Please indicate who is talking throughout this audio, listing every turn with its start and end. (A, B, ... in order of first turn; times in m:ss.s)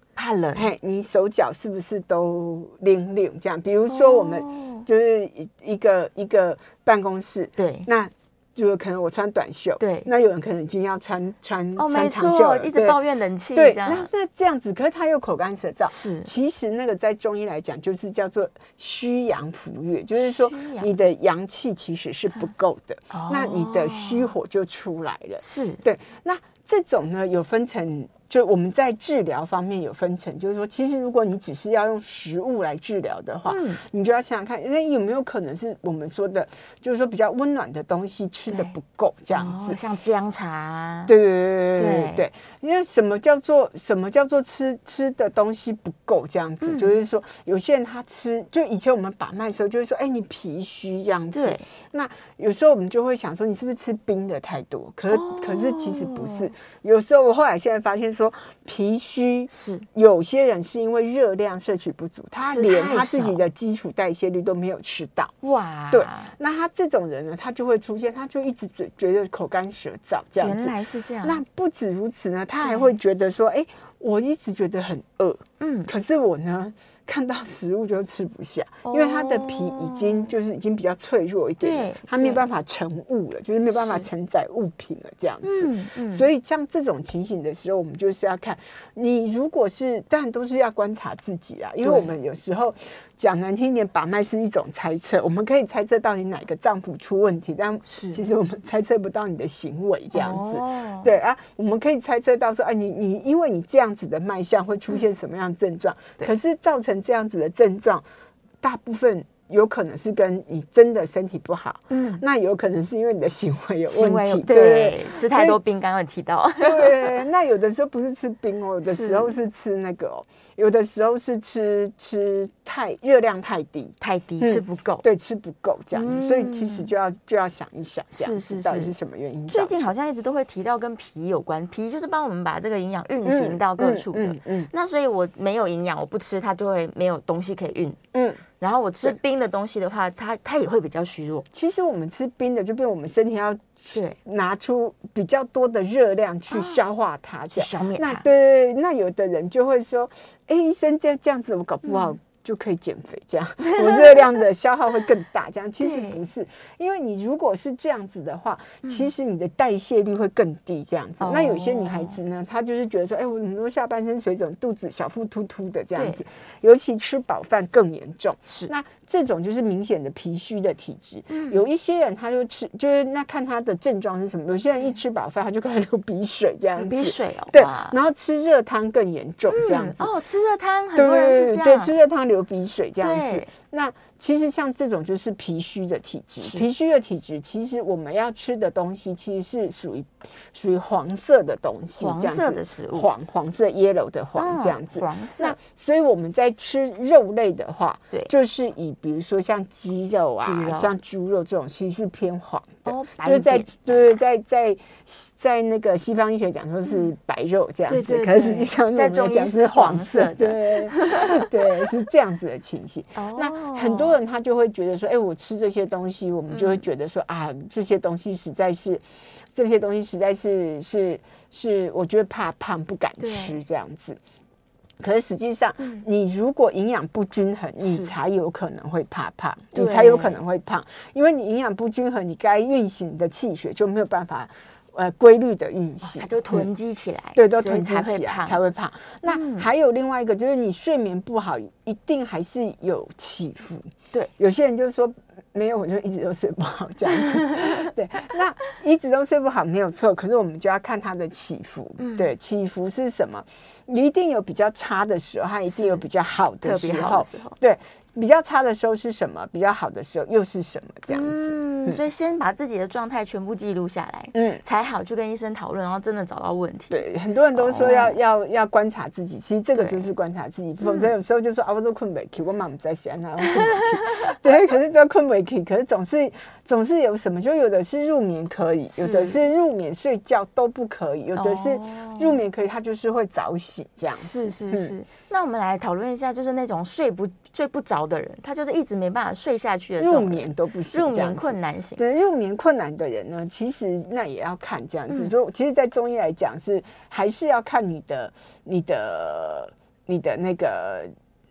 0:00.2-0:00.7 A
0:00.6-0:13.0 B
0:03.9-0:04.9 A
0:07.6-0:07.9 A
0:09.8-0:10.1 A
0:11.8-0:14.1 A
0:13.5-0:39.8 B
0:15.9-0:16.3 A
0:20.2-0:20.9 A
0:23.1-0:24.3 A
0:25.4-0:25.8 A
0:33.5-0:33.8 A
0:38.5-0:38.8 A
0:39.3-0:41.1 A
0:41.1-1:05.3 B
0:41.8-0:42.2 A
0:46.6-0:47.0 A
0:51.3-0:51.6 A
0:55.1-0:56.5 A
0:59.5-0:59.9 A
1:02.4-1:03.4 A
1:05.4-1:06.3 A
1:05.9-1:48.0 B
1:10.4-1:11.4 A
1:12.6-1:12.9 A
1:15.6-1:15.9 A
1:18.8-1:20.3 A
1:21.6-1:22.4 A
1:23.7-1:24.1 A
1:25.4-1:26.3 A
1:31.8-1:32.1 A
1:37.8-1:38.2 A
1:40.1-1:41.1 A
1:48.6-1:55.6 B
1:51.9-1:52.2 A
1:53.9-1:57.1 A
1:56.6-2:09.9 B
1:58.8-1:59.4 A
2:04.0-2:05.0 A
2:05.9-2:06.9 A
2:08.1-2:09.0 A
2:09.5-2:18.0 A
2:13.2-2:14.7 B
2:18.1-2:18.4 B
2:18.6-2:21.5 A
2:21.5-3:00.1 B
2:26.5-2:26.8 A
2:27.5-2:28.2 A
2:31.8-2:32.2 A
2:33.7-2:34.3 A
2:35.8-2:36.2 A
2:38.8-2:39.1 A
2:41.2-2:42.2 A
2:46.0-2:46.2 A
2:48.5-2:48.7 A
2:51.3-2:51.6 A
2:56.8-2:58.0 A
2:59.5-3:01.9 A
3:01.0-3:44.2 B
3:03.0-3:03.5 A
3:06.4-3:06.7 A
3:12.0-3:13.1 A
3:14.4-3:15.6 A
3:20.4-3:20.9 A
3:22.9-3:24.1 A
3:26.8-3:27.1 A
3:27.9-3:31.5 A
3:33.2-3:34.2 A
3:36.5-3:36.8 A
3:43.2-3:43.6 A
3:45.0-3:56.7 B
3:45.8-3:46.0 A
3:47.8-3:48.1 A
3:49.7-3:50.4 A
3:56.0-3:58.6 A
3:57.4-4:22.0 B
3:59.3-3:59.7 A
4:07.1-4:07.9 A
4:12.0-4:12.3 A
4:15.7-4:16.0 A
4:16.6-4:17.6 A
4:21.1-4:28.2 A
4:24.3-4:24.6 B
4:26.9-4:44.9 B
4:29.8-4:30.1 A
4:30.8-4:31.1 A
4:33.5-4:34.4 A
4:38.9-4:39.4 A
4:41.4-4:42.4 A
4:44.1-4:52.0 A
4:50.0-5:01.1 B